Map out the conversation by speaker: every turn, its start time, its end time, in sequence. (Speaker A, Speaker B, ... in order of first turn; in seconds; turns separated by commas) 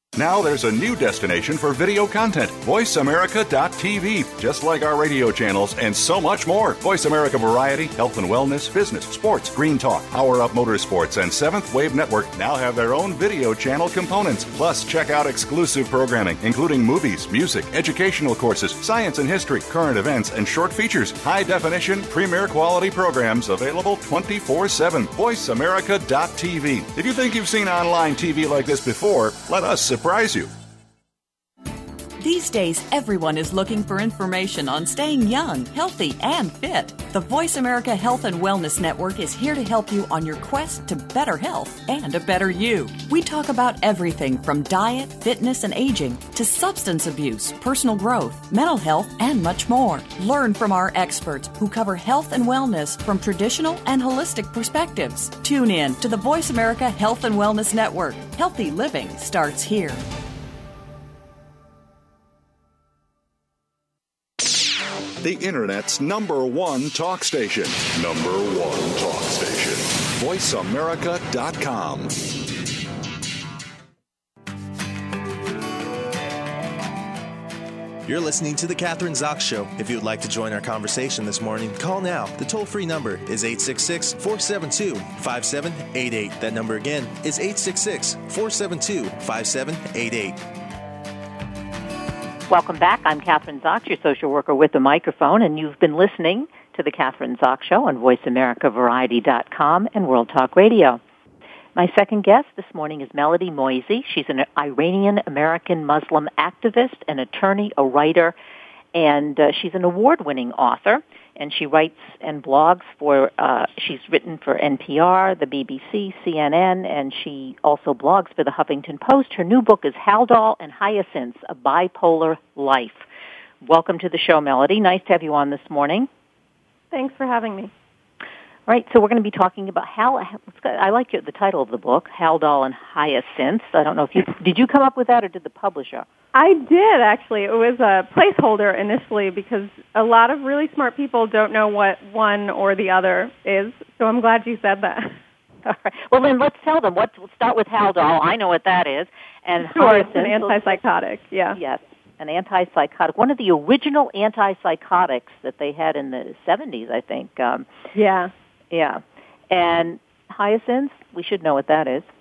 Speaker A: 0.1-30.5, Speaker B: 32.2-60.0, Speaker A: 65.2-72.3, Speaker C: 78.0-90.5, Speaker D: 92.5-101.0, Speaker D: 101.8-108.3, Speaker D: 108.9-123.1, Speaker D: 123.6-126.1, Speaker E: 126.9-127.7, Speaker D: 128.7-136.1, Speaker E: 136.3-145.2, Speaker D: 145.6-150.7, Speaker E: 149.6-151.6, Speaker D: 151.5-157.7, Speaker E: 157.9-158.3, Speaker D: 158.7-162.1